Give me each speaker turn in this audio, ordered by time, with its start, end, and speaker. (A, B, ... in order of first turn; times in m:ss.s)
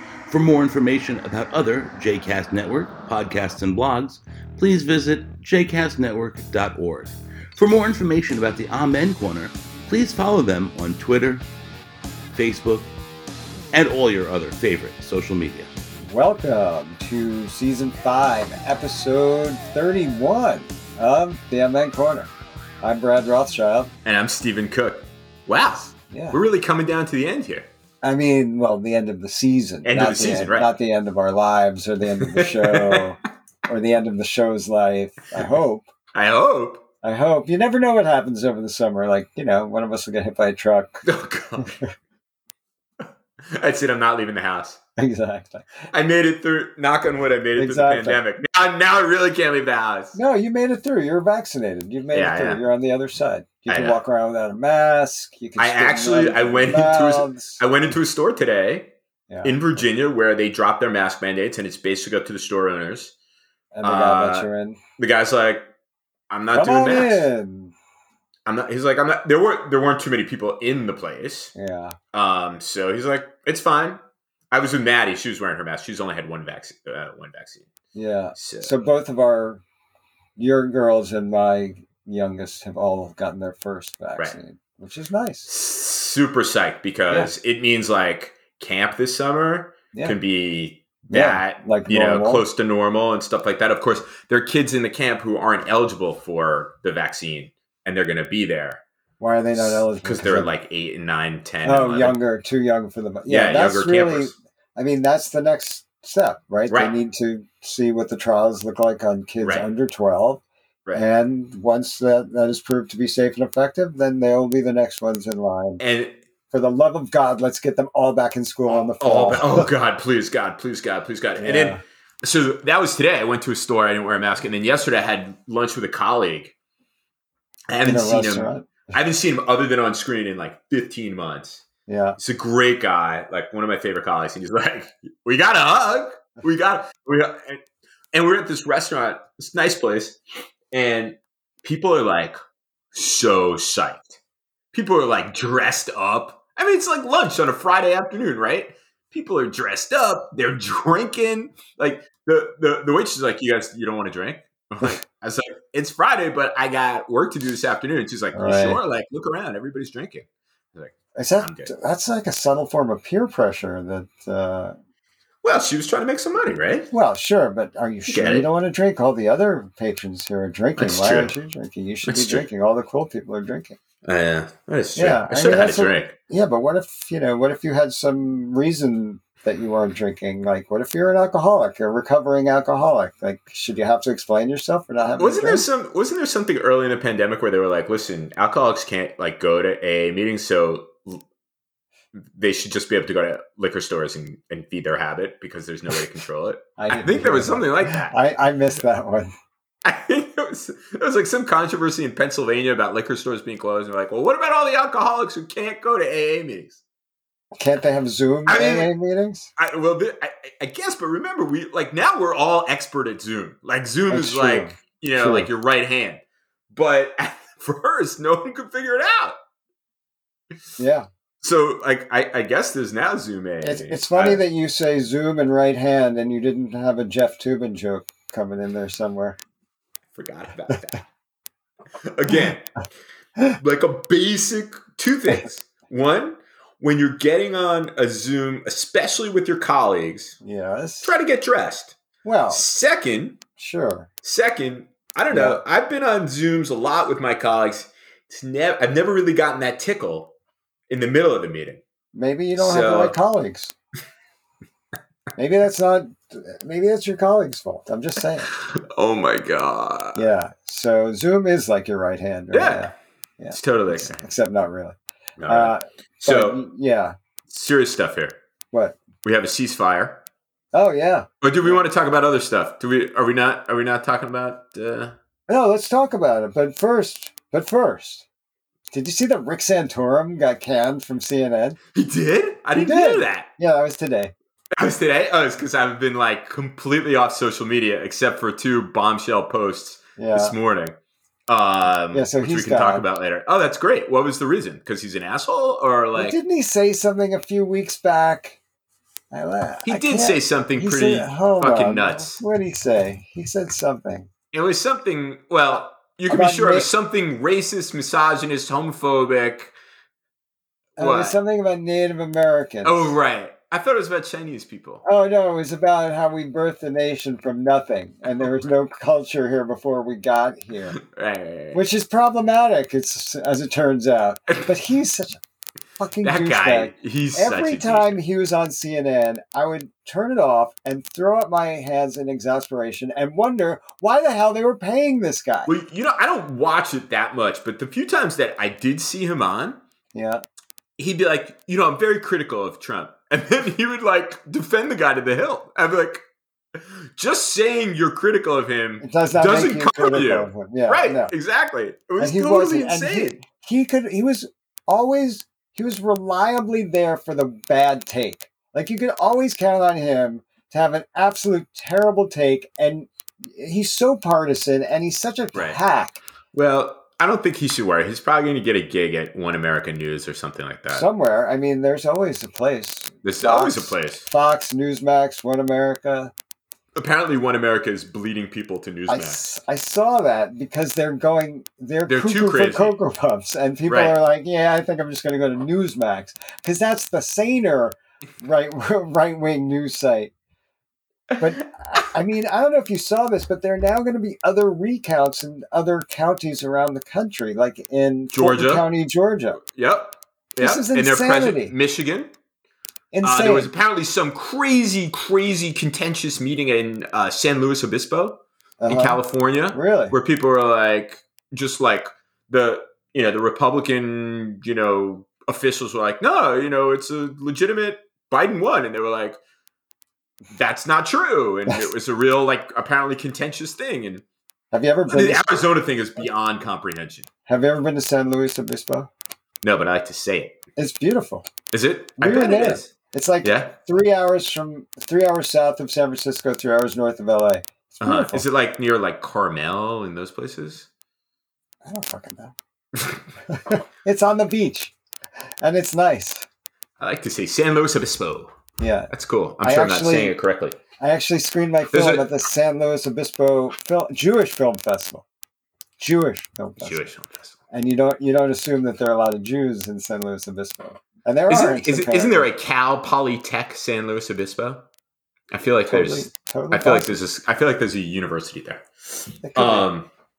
0:00.3-0:11.4 A
0:12.3-0:12.9 A
0:13.7-0:15.7 A
0:16.0-0:22.3 B
0:22.8-0:23.9 B
0:24.0-0:27.7 C
0:26.1-0:26.4 B
0:28.0-0:35.9 B
0:29.8-0:30.7 C
0:32.2-0:33.1 C
0:36.1-0:36.8 C
0:37.0-0:41.0 B
0:41.0-0:41.8 C
0:41.6-0:41.9 B
0:43.0-0:44.8 C
0:45.0-0:45.7 B
0:45.9-0:50.2 C
0:47.6-0:48.2 B
0:50.1-0:57.6 B
0:52.1-0:52.6 C
0:53.7-0:54.0 C
0:55.6-0:58.9 C
0:59.3-0:59.8 B
0:59.4-1:03.2 C
1:03.7-1:04.8 B
1:03.8-1:05.7 C
1:06.3-1:07.3 C
1:06.5-1:07.7 B
1:08.5-1:11.5 C
1:11.6-1:12.0 B
1:12.1-1:14.0 C
1:14.5-1:17.7 C
1:17.9-1:19.6 B
1:18.4-1:18.7 C
1:20.4-1:25.5 B
1:25.5-1:38.8 C
1:31.1-1:32.4 B
1:39.2-1:40.5 B
1:39.5-1:42.2 C
1:41.6-1:50.4 B
1:43.3-1:44.4 C
1:49.4-1:49.7 C
1:50.9-1:55.8 B
1:55.8-1:56.2 C
1:56.5-1:59.7 B
1:58.7-2:06.5 C
2:01.4-2:01.8 B
2:07.7-2:11.6 C
2:07.8-2:08.9 B
2:11.9-2:12.2 B
2:12.2-2:17.6 C
2:18.1-2:20.2 C
2:20.7-2:22.4 C
2:22.9-2:24.2 C
2:24.7-2:41.7 C
2:38.3-2:38.8 B
2:41.2-2:44.8 B
2:45.4-2:46.9 C
2:46.9-2:53.8 B
2:48.1-2:48.5 C
2:50.8-2:51.3 C
2:52.1-2:52.5 C
2:54.0-2:56.2 C
2:55.0-3:05.7 B
3:05.2-3:11.2 C
3:12.2-3:18.2 C
3:16.8-3:19.3 B
3:19.8-3:26.8 C
3:27.6-3:29.5 B
3:28.5-3:28.9 C
3:29.6-3:39.4 C
3:34.1-3:35.5 B
3:40.8-3:41.1 B
3:41.4-3:44.4 C
3:43.6-3:49.4 B
3:50.1-3:51.0 C
3:52.0-3:52.7 C
3:53.6-4:00.4 C
4:00.4-4:01.2 B
4:01.0-4:02.0 C
4:02.2-4:02.6 B
4:02.5-4:03.4 C
4:03.6-4:04.1 B
4:04.2-4:10.3 C
4:05.3-4:05.6 B
4:10.9-4:11.8 C
4:12.1-4:13.7 B
4:12.6-4:13.2 C
4:15.4-4:18.5 B
4:18.5-4:20.2 C
4:20.1-4:27.2 B
4:22.5-4:22.9 C
4:23.5-4:24.2 C
4:25.4-4:26.6 C
4:27.5-4:28.4 C
4:28.7-4:29.0 B
4:29.2-4:30.2 C
4:30.7-4:31.8 B
4:31.4-4:35.2 C
4:35.5-4:38.3 B
4:38.9-4:41.8 B
4:42.0-4:43.5 C
4:42.7-4:44.3 B
4:44.8-4:51.0 C
4:50.2-4:50.6 B
4:51.5-4:56.4 C
4:52.1-4:53.0 B
4:56.2-4:58.6 B
4:59.3-5:04.3 B
4:59.9-5:02.4 C
5:04.5-5:09.7 C
5:06.3-5:06.9 B
5:11.0-5:13.2 B
5:11.0-5:11.4 C
5:12.8-5:15.0 C
5:15.0-5:21.0 B
5:21.0-5:21.8 C
5:21.7-5:25.4 B
5:26.0-5:35.7 B
5:26.2-5:28.2 C
5:35.7-5:39.8 C
5:40.1-5:40.4 B
5:41.0-5:46.2 C
5:46.8-5:53.4 C
5:49.0-5:51.3 B
5:52.2-6:06.2 B
6:06.5-6:11.1 C
6:10.9-6:16.3 B
6:13.2-6:14.3 C
6:17.0-6:19.5 C
6:19.1-6:30.3 B
6:22.1-6:23.0 C
6:23.9-6:24.2 C
6:31.4-6:39.6 B
6:38.3-6:38.9 C
6:39.6-6:42.3 C
6:40.6-6:41.7 B
6:43.1-6:43.7 B
6:43.2-6:59.4 C
6:48.8-6:50.2 B
7:00.5-7:04.2 C
7:04.7-7:05.6 B
7:05.1-7:07.3 C
7:07.5-7:09.1 B
7:09.6-7:10.6 C
7:10.8-7:11.5 B
7:11.7-7:13.7 C
7:12.2-7:18.4 B
7:18.0-7:20.9 C
7:21.9-7:22.5 B
7:23.5-7:24.9 B
7:25.6-7:26.5 B
7:27.0-7:28.5 C
7:28.8-7:30.4 B
7:29.1-7:30.8 C
7:31.0-7:35.2 B
7:31.9-7:32.3 C
7:36.0-7:37.1 B
7:36.8-7:37.6 C
7:37.7-7:42.5 B
7:41.5-7:44.8 C
7:45.5-7:50.1 C
7:45.9-7:47.2 B
7:49.4-7:49.9 B